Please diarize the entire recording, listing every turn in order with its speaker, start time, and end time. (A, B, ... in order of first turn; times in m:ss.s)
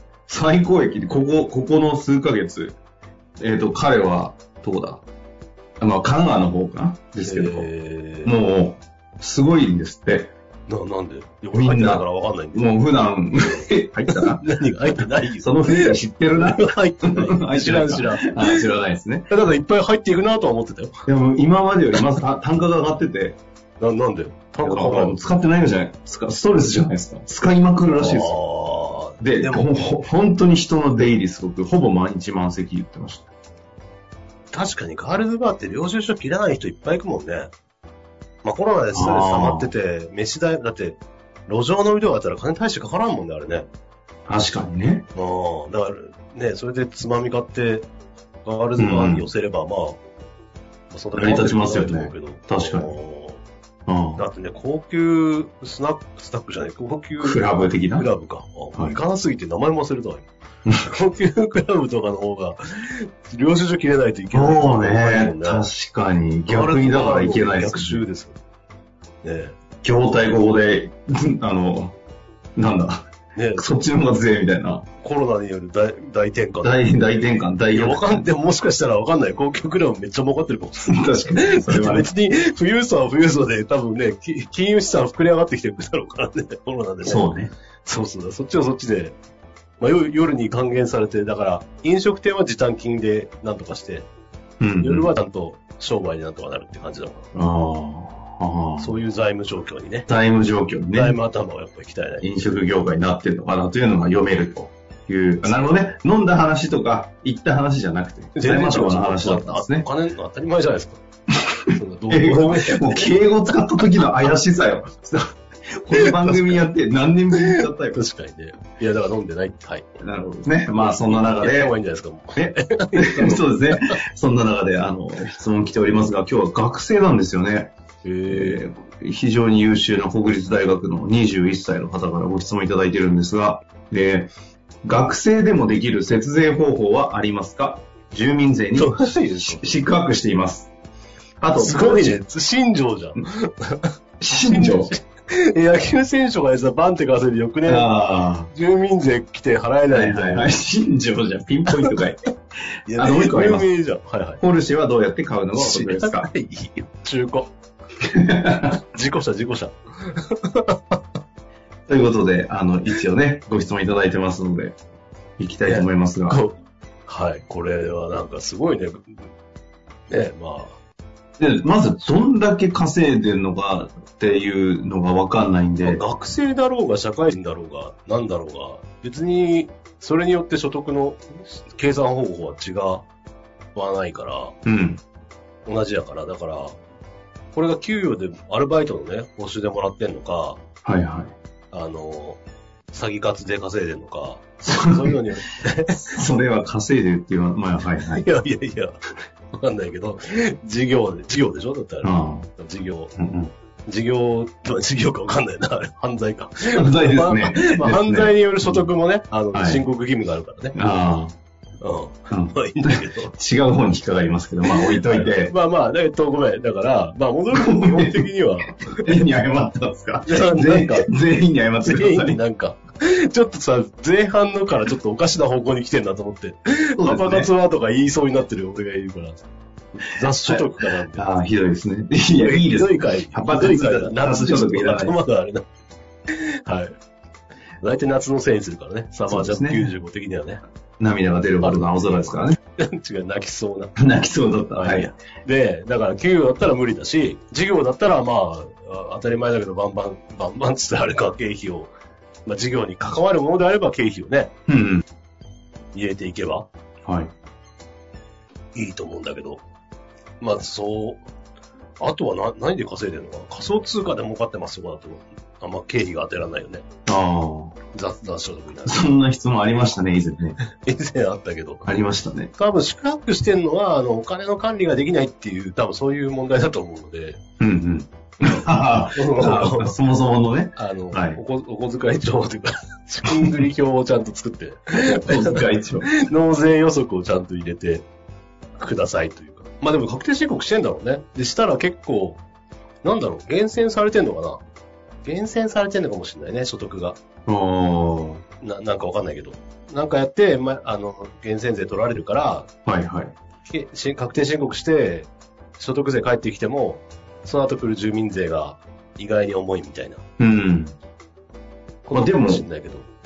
0:00.3-0:02.8 A
0:03.4-0:05.0 A
0:05.8-0:07.7 A
0:07.2-0:08.3 B
0:08.2-0:10.3 A
0:10.7-0:12.7 B
0:11.5-0:14.4 A
0:14.1-0:18.6 B
0:15.4-0:19.3 A
0:19.3-0:21.0 B
0:21.0-0:23.4 A
0:23.8-0:25.2 B
0:24.6-0:28.4 A
0:27.4-0:29.9 B
0:29.2-0:33.3 A
0:34.5-0:37.5 B
0:38.4-0:43.7 B
0:38.9-0:39.7 A
0:44.3-0:45.1 A
0:45.1-0:47.9 B
0:48.4-0:50.0 B
0:48.8-0:49.3 A
0:50.9-0:53.4 B
0:51.1-0:52.9 A
0:53.9-0:54.2 A
0:54.2-1:00.3 B
0:57.2-0:58.1 A
1:00.8-1:05.6 B
1:04.3-1:08.0 A
1:06.5-1:08.4 B
1:09.2-1:09.6 B
1:09.8-1:12.0 A
1:12.6-1:14.8 A
1:13.3-1:13.7 B
1:15.0-1:16.8 B
1:16.6-1:18.2 A
1:17.7-1:27.3 B
1:20.8-1:22.1 A
1:27.0-1:27.5 A
1:27.8-1:29.2 B
1:29.8-1:34.1 B
1:34.6-1:35.1 A
1:34.8-1:37.3 B
1:37.3-1:39.0 A
1:38.8-1:40.1 B
1:40.1-1:41.2 A
1:40.9-1:42.7 B
1:42.2-1:49.9 A
1:45.4-1:45.9 B
1:48.3-1:51.0 B
1:51.5-1:58.0 A
1:51.7-1:54.2 B
1:55.9-1:56.6 B
1:57.3-1:59.9 B
2:00.0-2:01.7 A
2:00.7-2:04.0 B
2:02.4-2:07.7 A
2:08.0-2:08.6 B
2:08.3-2:14.3 A
2:14.8-2:20.7 A
2:18.7-2:19.8 B
2:21.4-2:22.2 A
2:21.6-2:30.6 B
2:24.2-2:24.9 A
2:27.6-2:28.5 A
2:29.9-2:32.3 A
2:32.8-2:33.7 A
2:32.9-2:34.4 B
2:34.4-2:36.3 A
2:35.5-2:37.5 B
2:38.0-2:38.8 A
2:38.6-2:41.0 B
2:41.9-2:44.8 A
2:45.4-2:46.4 A
2:45.6-2:49.3 B
2:50.1-2:50.8 B
2:51.4-2:56.0 A
2:55.8-3:03.0 B
3:03.7-3:04.6 B
3:04.6-3:05.0 A
3:05.6-3:06.8 B
3:07.5-3:10.6 B
3:10.8-3:11.3 A
3:11.7-3:12.4 B
3:12.9-3:16.1 B
3:14.6-3:15.2 A
3:16.0-3:18.2 A
3:18.0-3:19.0 B
3:19.5-3:23.1 B
3:22.0-3:22.5 A
3:23.2-3:23.5 A
3:23.8-3:30.8 B
3:26.7-3:28.9 A
3:29.5-3:29.8 A
3:30.7-3:31.4 A
3:31.8-3:33.3 B
3:32.3-3:35.5 A
3:34.6-3:39.1 B
3:37.5-3:38.3 A
3:38.9-3:42.4 A
3:40.2-3:41.1 B
3:41.8-3:51.3 B
3:47.0-3:47.5 A
3:50.4-3:55.2 A
3:52.3-3:55.6 B
3:56.3-3:56.9 B
3:57.8-4:00.6 B
3:59.3-3:59.9 A
4:01.0-4:02.6 A
4:01.6-4:02.1 B
4:02.8-4:04.0 B
4:04.0-4:05.1 A
4:04.7-4:11.9 B
4:12.4-4:14.5 B
4:14.7-4:15.0 A
4:15.9-4:16.7 B
4:17.0-4:17.3 A
4:18.7-4:19.6 B
4:20.4-4:21.2 B
4:22.0-4:26.9 B
4:27.0-4:27.8 A
4:27.9-4:29.1 B
4:28.8-4:30.6 A
4:30.6-4:31.9 B
4:31.8-4:32.5 A
4:32.5-4:37.4 B
4:37.6-4:41.4 A
4:38.4-4:39.9 B
4:40.8-4:48.0 B
4:43.3-4:43.6 A
4:45.2-4:46.1 A
4:48.8-4:52.4 B
4:53.0-4:54.6 B
4:55.2-4:57.2 B
4:57.4-4:58.4 A
4:58.6-5:02.7 B
5:02.8-5:03.3 A
5:03.6-5:10.2 B
5:10.4-5:11.0 A
5:12.0-5:13.1 B
5:12.1-5:12.6 A